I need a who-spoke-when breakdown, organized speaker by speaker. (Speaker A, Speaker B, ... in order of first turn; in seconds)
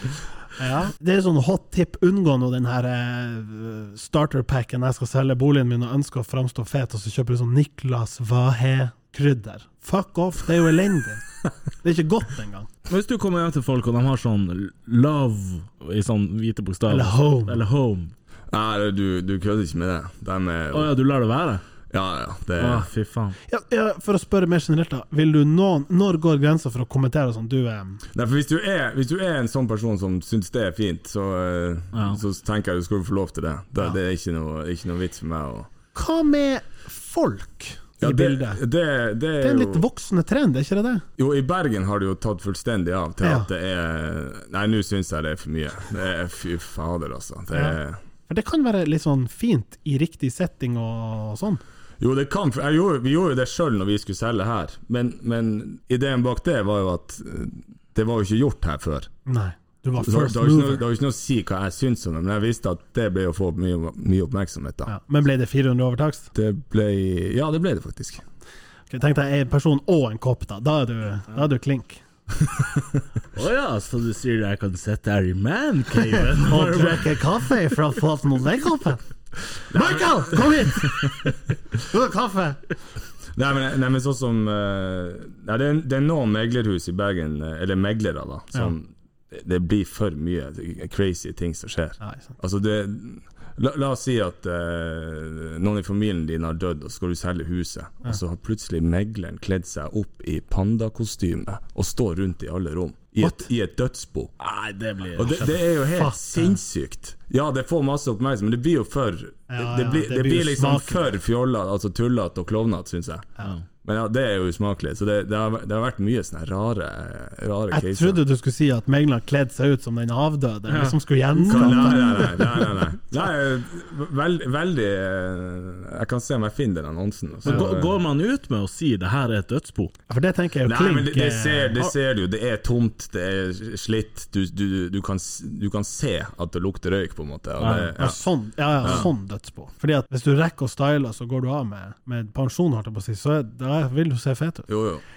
Speaker A: 0.6-11.2, 11.8-12.7, 16.9-17.6, 23.5-28.0, 35.9-38.6, 39.4-41.0, 43.2-43.5, 48.3-51.6, 59.3-60.8, 64.9-66.3, 68.9-72.0, 76.4-79.0, 79.6-81.3, 81.9-82.6, 92.0-92.3, 105.9-106.5, 109.5-111.1, 117.7-122.7, 130.1-131.8, 137.9-144.7
Speaker B: 12.9-18.1, 20.7-21.6, 22.6-23.4, 31.9-32.2, 73.3-77.2, 104.4-105.6, 120.7-121.8, 127.4-129.9, 137.6-137.9
Speaker C: 18.5-20.9, 21.9-22.9, 28.1-35.7, 38.0-39.8, 41.2-48.0, 52.0-59.1, 60.0-64.9, 66.3-68.2, 79.7-81.3, 83.3-104.3, 105.1-113.3, 113.8-118.2, 121.5-128.0, 130.6-138.2, 138.8-139.1, 144.7-145.0